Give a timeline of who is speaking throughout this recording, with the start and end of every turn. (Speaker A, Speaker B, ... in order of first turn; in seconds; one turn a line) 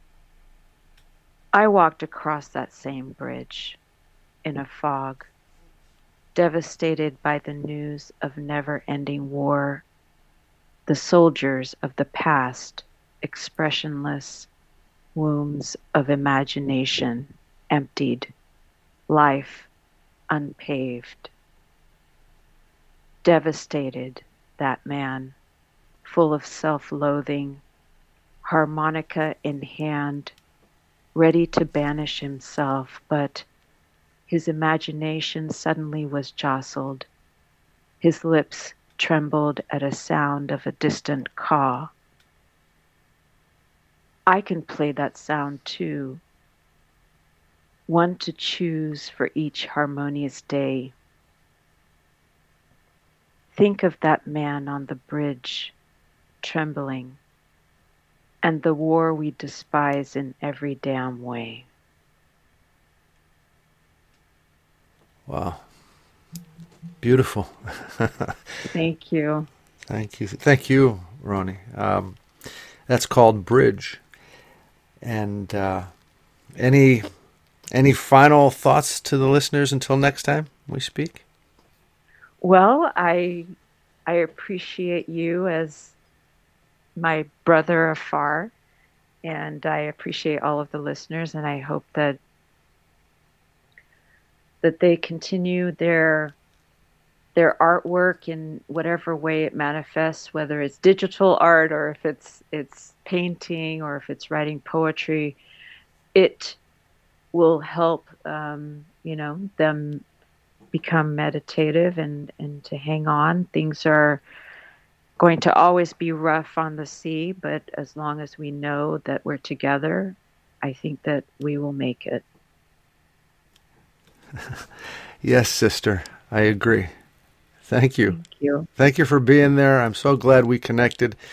Speaker A: 1.5-3.8
Speaker A: 4.4-5.3
Speaker A: 6.3-9.8
Speaker A: 10.9-14.5
Speaker A: 15.1-18.3
Speaker A: 19.1-19.7
Speaker A: 20.3-21.3
Speaker A: 23.2-25.4
Speaker A: 26.0-27.6
Speaker A: 28.4-30.3
Speaker A: 31.1-33.5
Speaker A: 34.3-37.1
Speaker A: 38.0-41.9
Speaker A: 44.3-46.2
Speaker A: 47.9-50.9
Speaker A: 53.5-55.7
Speaker A: 56.4-57.2
Speaker A: 58.4-61.6
Speaker B: 65.3-65.6
Speaker B: 67.0-68.3
Speaker A: 68.7-69.5
Speaker B: 69.9-72.2
Speaker B: 72.9-74.0
Speaker B: 75.0-75.9
Speaker B: 76.6-77.0
Speaker B: 77.7-81.2
Speaker A: 82.4-83.5
Speaker A: 84.1-85.9
Speaker A: 87.0-88.5
Speaker A: 89.2-92.2
Speaker A: 94.6-96.3
Speaker A: 97.3-105.4
Speaker A: 106.1-106.6
Speaker A: 107.3-110.0
Speaker A: 110.7-114.2
Speaker A: 115.2-122.2
Speaker B: 125.2-126.9
Speaker B: 127.7-128.2
Speaker A: 128.1-128.7
Speaker B: 128.8-131.2